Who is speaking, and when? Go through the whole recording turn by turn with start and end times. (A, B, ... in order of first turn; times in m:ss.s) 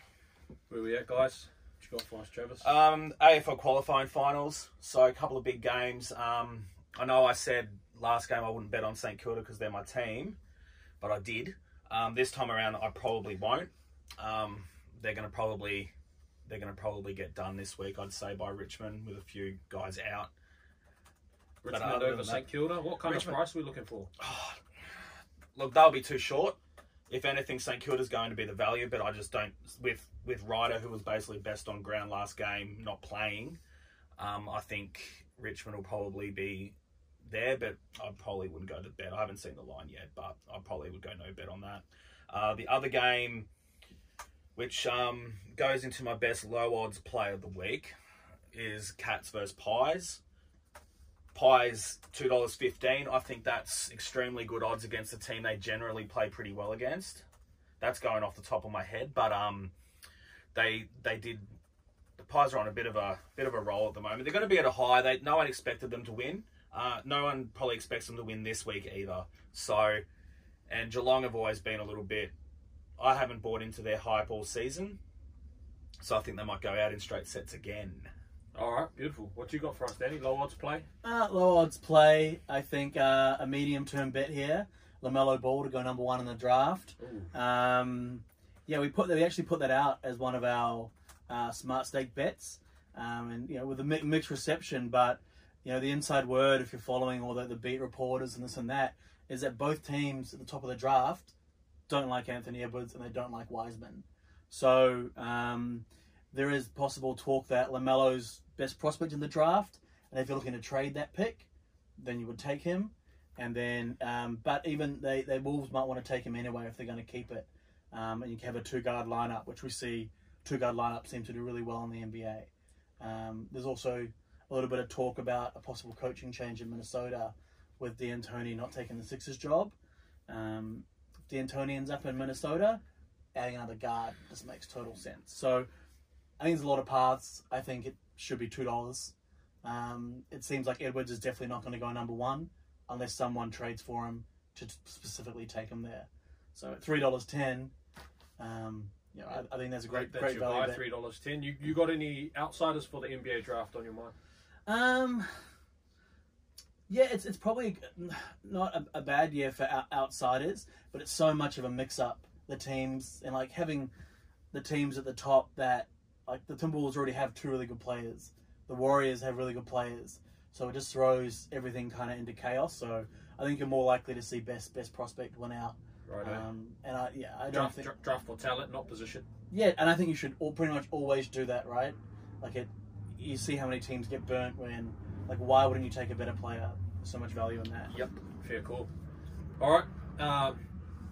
0:00.7-0:02.7 A
0:02.6-0:10.4 B
0:11.0-0:15.9 B
0:16.4-0:20.3 B
0:21.6-0:24.1 A
0:21.7-0:23.4 B
0:24.2-0:24.6 B
0:25.5-0:26.6 B
0:27.1-0:33.6 B
0:34.2-0:43.5 B
0:44.6-0:47.9 B
0:48.5-0:50.2 B
0:51.3-0:57.2 B
0:57.8-0:59.7 B
1:00.5-1:01.5 B
1:02.2-1:10.0 B
1:10.7-1:12.3 B
1:13.0-1:15.0 B
1:16.0-1:18.1 B
1:18.5-1:20.9 A
1:21.0-1:41.3 C
1:27.0-1:27.3 A
1:41.9-2:02.5 C
2:03.0-2:09.7 C
2:10.3-2:12.8 C
2:13.4-2:15.7 C
2:16.4-2:27.7 C
2:28.4-2:30.8 C
2:29.9-2:34.1 A
2:34.7-2:35.4 C
2:36.9-2:43.9 C
2:44.5-2:57.9 C
2:56.1-2:56.4 A
2:57.5-2:59.3 A
2:59.5-3:07.9 C
3:07.9-3:08.9 A
3:09.6-3:10.6 A